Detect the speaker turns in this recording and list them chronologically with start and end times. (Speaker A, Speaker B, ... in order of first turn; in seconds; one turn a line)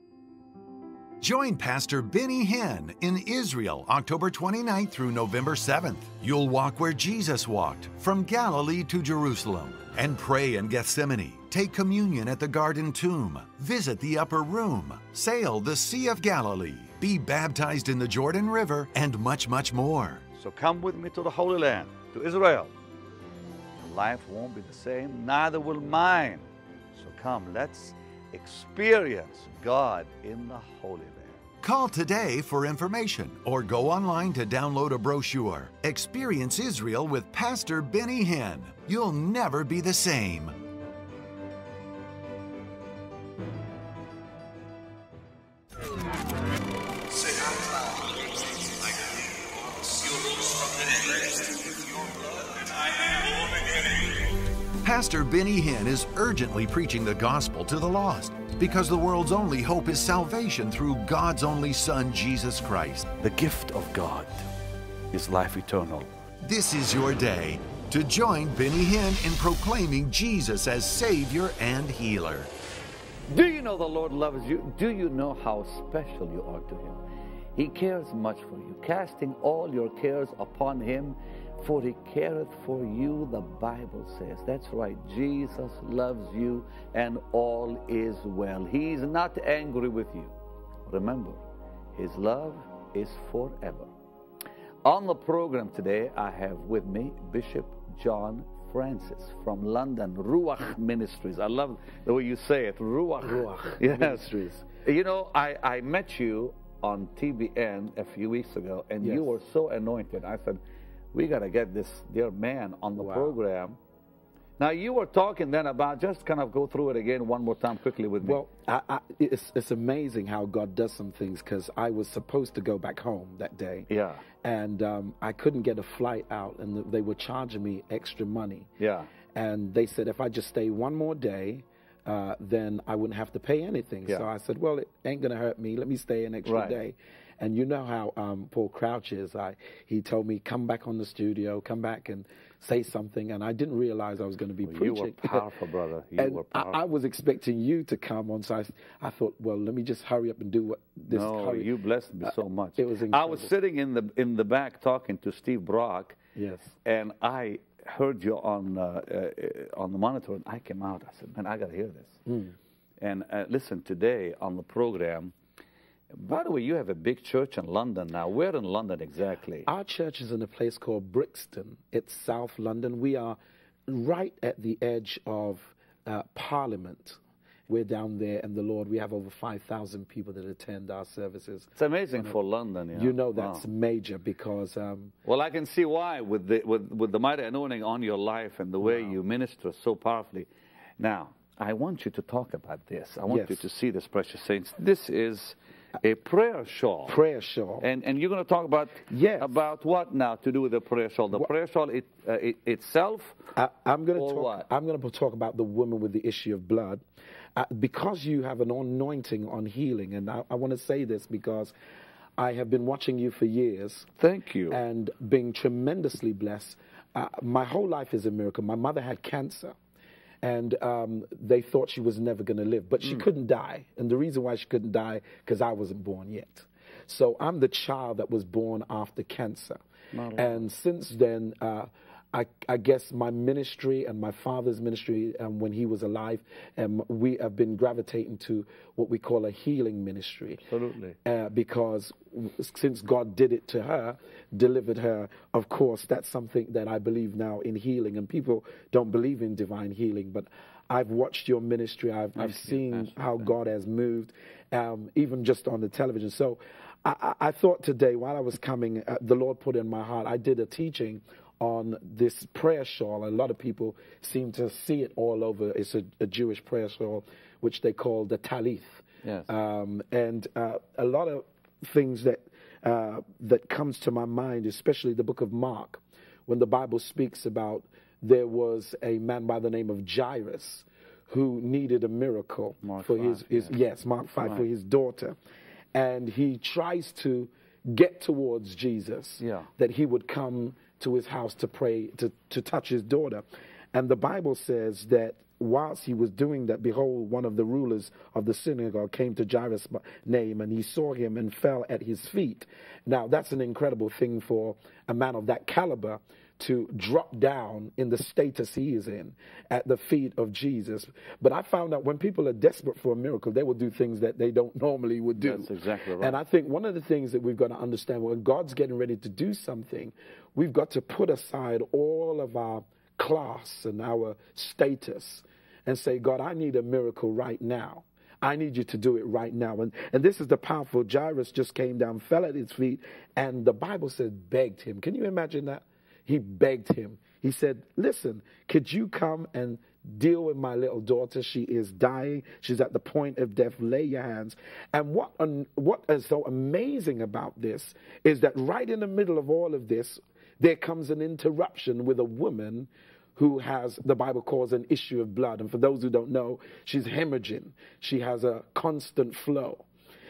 Speaker A: 1.2-20.2
Speaker B: 20.3-22.7
Speaker B: 23.8-31.4
Speaker A: 31.6-40.5
Speaker A: 47.2-48.0
Speaker A: 49.3-51.2
Speaker A: 52.3-52.7
Speaker A: 54.8-63.1
Speaker B: 63.2-64.5
Speaker B: 65.1-66.1
Speaker A: 66.4-72.5
Speaker B: 73.3-77.0
Speaker B: 77.5-90.3
Speaker B: 90.8-91.4
Speaker B: 92.0-93.9
Speaker B: 94.8-104.3
Speaker C: 103.2-104.7
Speaker B: 104.8-110.6
Speaker C: 109.0-109.3
Speaker B: 111.1-113.8
Speaker C: 113.0-113.3
Speaker B: 114.6-118.4
Speaker C: 118.2-123.9
Speaker B: 123.9-124.2
Speaker C: 124.4-128.7
Speaker B: 128.8-129.1
Speaker C: 129.3-145.4
Speaker B: 136.4-136.8
Speaker B: 144.6-146.8
Speaker C: 146.2-151.7
Speaker B: 151.1-156.2
Speaker C: 152.3-153.5
Speaker C: 156.3-156.7
Speaker B: 156.8-162.2
Speaker C: 162.2-162.5
Speaker B: 163.0-165.3
Speaker B: 166.1-169.7
Speaker C: 169.6-182.3
Speaker B: 181.8-183.6
Speaker C: 182.9-185.1
Speaker B: 185.2-190.5
Speaker C: 188.8-189.1
Speaker B: 191.0-197.2
Speaker C: 193.3-193.6
Speaker C: 197.1-197.8
Speaker B: 197.8-203.4
Speaker C: 199.1-199.5
Speaker C: 203.5-207.0
Speaker B: 204.2-204.7
Speaker C: 207.6-211.7
Speaker C: 212.4-214.1
Speaker B: 214.2-214.8
Speaker C: 214.7-219.7
Speaker C: 220.4-229.8
Speaker B: 230.1-230.6
Speaker C: 230.3-240.6
Speaker B: 240.7-241.2
Speaker C: 241.2-285.4
Speaker B: 252.3-253.5
Speaker B: 269.2-269.5
Speaker B: 282.8-283.8
Speaker C: 285.9-359.9
Speaker B: 289.4-289.7
Speaker B: 315.4-316.4